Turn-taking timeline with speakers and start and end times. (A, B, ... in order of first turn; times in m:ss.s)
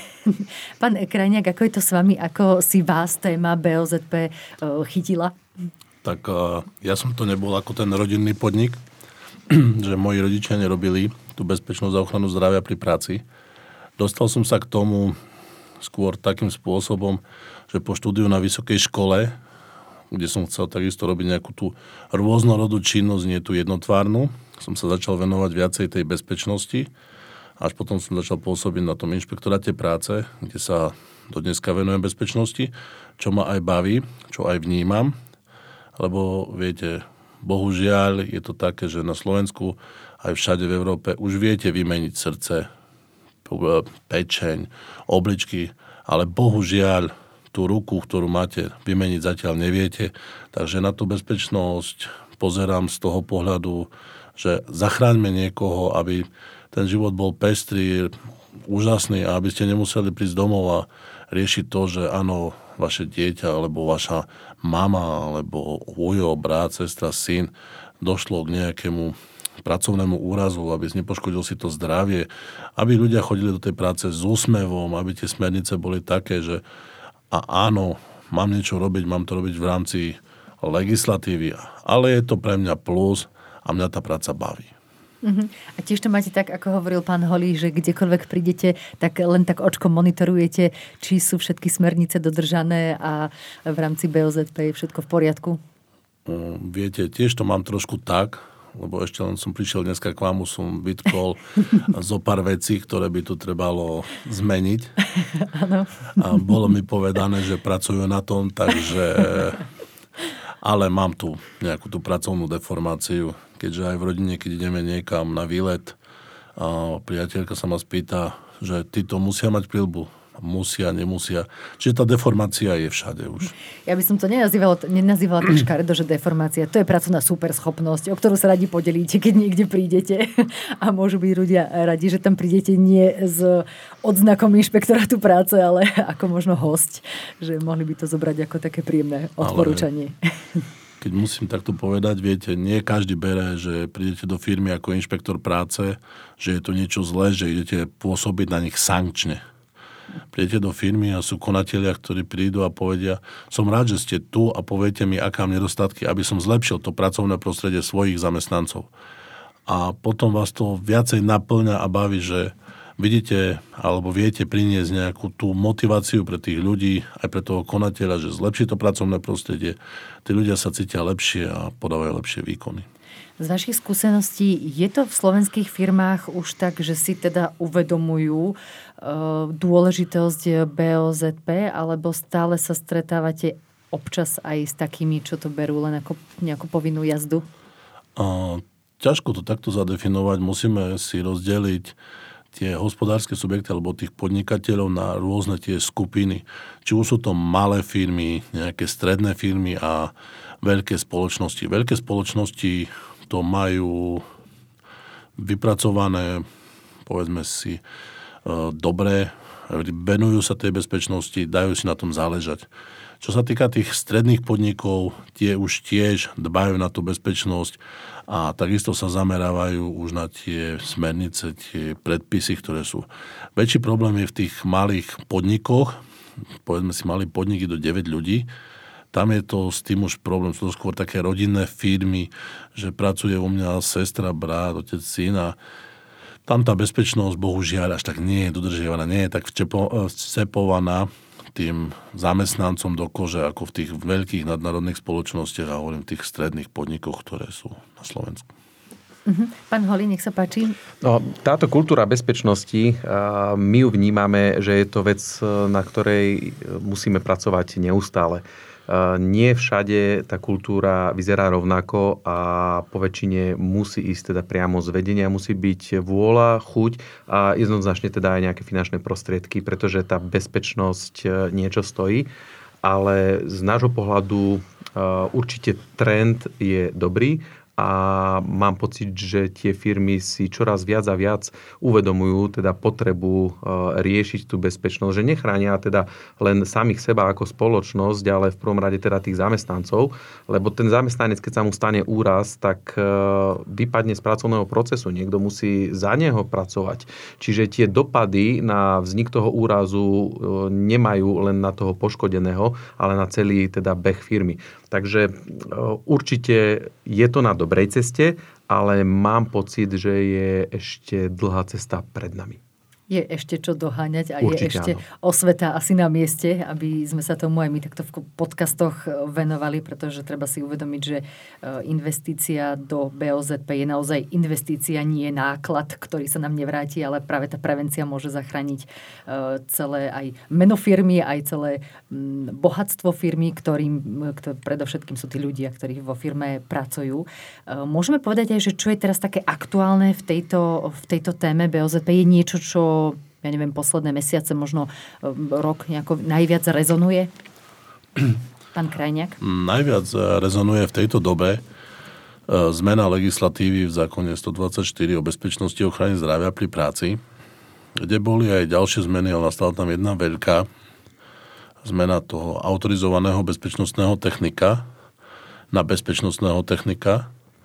0:00.3-0:05.4 A
0:06.0-0:08.8 B
0:09.5-0:13.2 B
0:14.0-0:15.2 B
0:15.8-0:19.4 B
0:20.1-0:26.9 B
0:27.6-0:35.2 B
0:36.0-0:42.7 B
0:43.4-1:16.6 B
1:17.3-1:24.7 B
1:25.2-1:35.6 A
1:36.2-1:45.0 B
1:45.4-1:46.5 A
1:46.2-1:49.6 B
1:50.6-1:56.0 B
1:56.6-2:03.5 B
2:03.9-2:20.6 A
2:19.4-2:19.8 B
2:21.0-2:29.4 B
2:30.3-2:38.9 B
2:39.6-2:52.8 B
2:53.4-3:07.4 A
3:08.2-3:11.9 B
3:12.5-3:24.2 B
3:25.4-3:26.4 B
3:27.0-3:27.8 B
3:28.4-3:32.7 B
3:33.2-3:46.0 B
3:46.6-3:48.5 B
3:49.1-3:55.6 B
3:56.4-4:08.5 B
4:09.2-4:10.8 A
4:11.0-4:32.3 C
4:32.8-5:12.6 C
5:13.1-5:47.3 A
5:14.4-5:15.0 C
5:48.7-5:49.4 A
5:49.4-5:51.6 B
5:52.5-5:57.2 B
5:58.0-6:00.7 B
6:01.8-6:04.8 B
6:05.7-6:07.3 B